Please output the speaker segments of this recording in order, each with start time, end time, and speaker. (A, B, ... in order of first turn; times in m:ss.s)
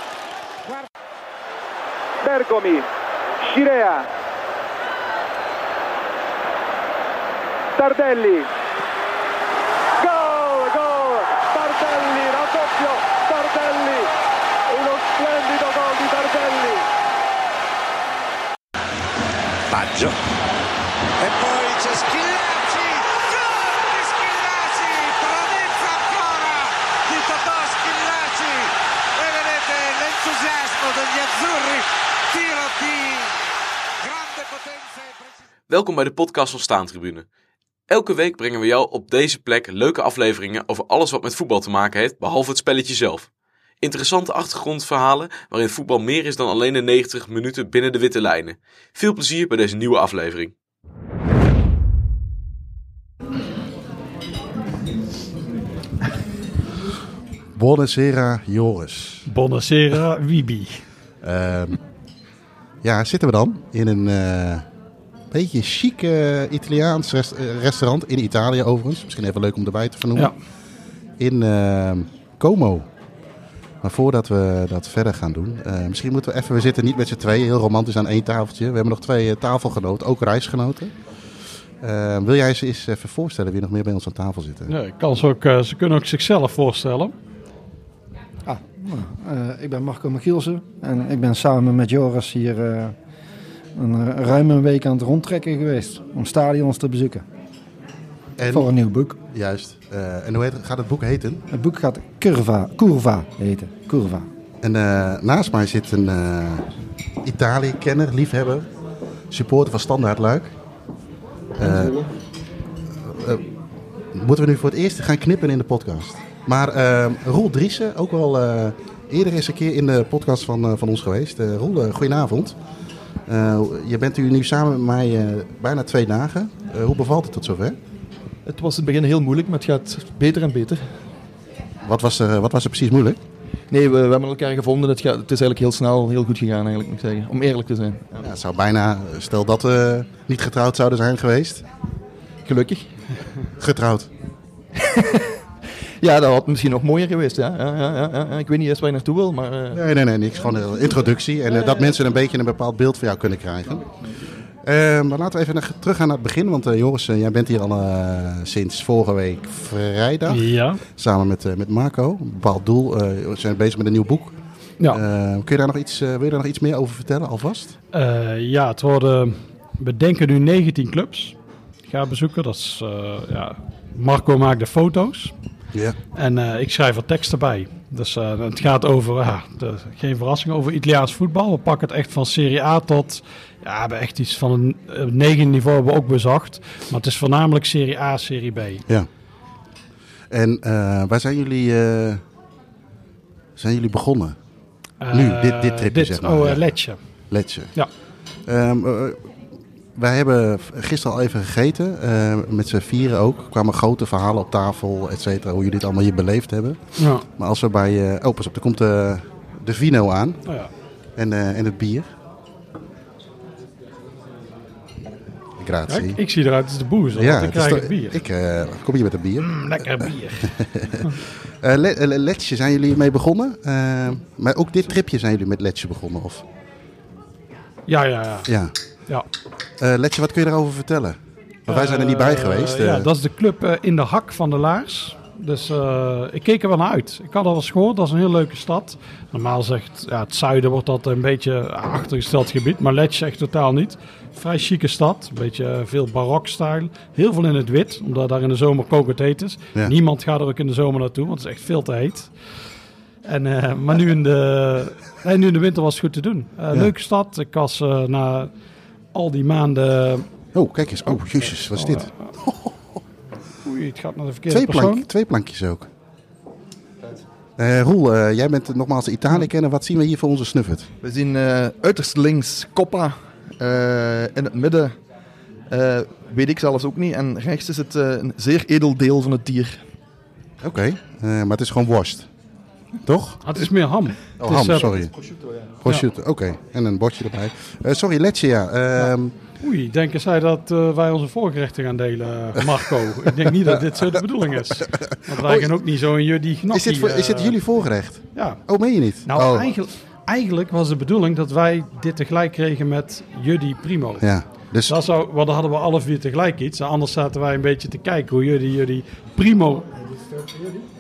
0:02.2-0:02.9 A
0:03.4-0:04.1 A
0:07.8-0:08.5 A
0:10.0-0:14.1 A
0:14.7-0:16.8 A
0:21.2-0:33.5 B
0:34.0-0:35.4 B
0:35.7-0:37.3 C
0:37.9-0:43.3 C
0:43.8-0:50.5 C
0:57.5-0:59.2 D
0:59.3-1:00.8 E
1:01.2-1:01.8 D
1:02.8-1:04.6 D
1:05.3-1:10.3 D
1:11.2-1:12.9 D
1:13.8-1:20.9 D
1:21.8-1:24.7 D
1:24.7-1:27.1 E
1:28.5-1:32.9 F
1:33.8-1:37.2 F
1:38.4-1:38.7 D
1:38.5-1:39.2 F
1:39.3-1:41.4 D
1:41.5-1:44.3 F
1:44.6-1:46.7 D
1:47.2-1:48.7 D
1:49.3-1:50.6 D
1:51.6-1:52.0 D
1:51.6-1:52.0 G
1:53.1-1:53.4 D
1:54.1-2:02.6 D
2:03.3-2:07.8 D
2:08.5-2:10.9 G
2:11.8-2:13.2 D
2:13.7-2:18.3 G
2:18.2-2:21.6 D
2:22.5-2:22.9 G
2:23.6-2:24.1 D
2:24.8-2:25.3 G
2:26.0-2:29.8 G
2:29.7-2:33.9 D
2:34.6-2:44.4 D
2:40.3-2:40.8 E
2:44.9-2:47.8 D
2:47.9-2:51.3 E
2:51.9-2:55.3 E
2:56.2-3:08.8 E
3:10.3-3:12.2 D
3:13.6-3:14.4 D
3:15.0-3:17.0 E
3:15.1-3:16.6 D
3:17.3-3:17.7 D
3:18.5-3:19.2 D
3:20.0-3:30.4 D
3:27.0-3:27.2 E
3:31.2-3:32.1 D
3:35.6-3:36.2 D
3:35.9-3:38.2 E
3:37.1-3:46.4 D
3:39.4-3:40.5 E
3:47.9-3:48.5 E
3:48.5-3:48.7 D
3:49.8-3:53.1 D
3:51.7-4:12.3 E
4:13.2-4:18.5 E
4:19.1-4:20.3 E
4:20.5-4:23.0 D
4:21.7-4:22.1 E
4:23.6-4:25.0 E
4:24.5-4:25.9 D
4:27.6-4:30.9 D
4:31.0-4:35.0 G
4:35.7-4:39.8 G
4:40.6-4:42.3 D
4:43.0-4:43.7 D
4:43.4-4:45.0 E
4:44.4-4:45.1 D
4:45.1-4:45.7 G
4:45.8-4:49.3 D
4:49.0-4:57.6 E
4:54.8-4:55.7 D
4:56.7-4:59.7 D
4:58.4-4:58.6 E
4:59.2-5:04.3 E
5:04.2-5:05.0 D
5:04.9-5:09.9 E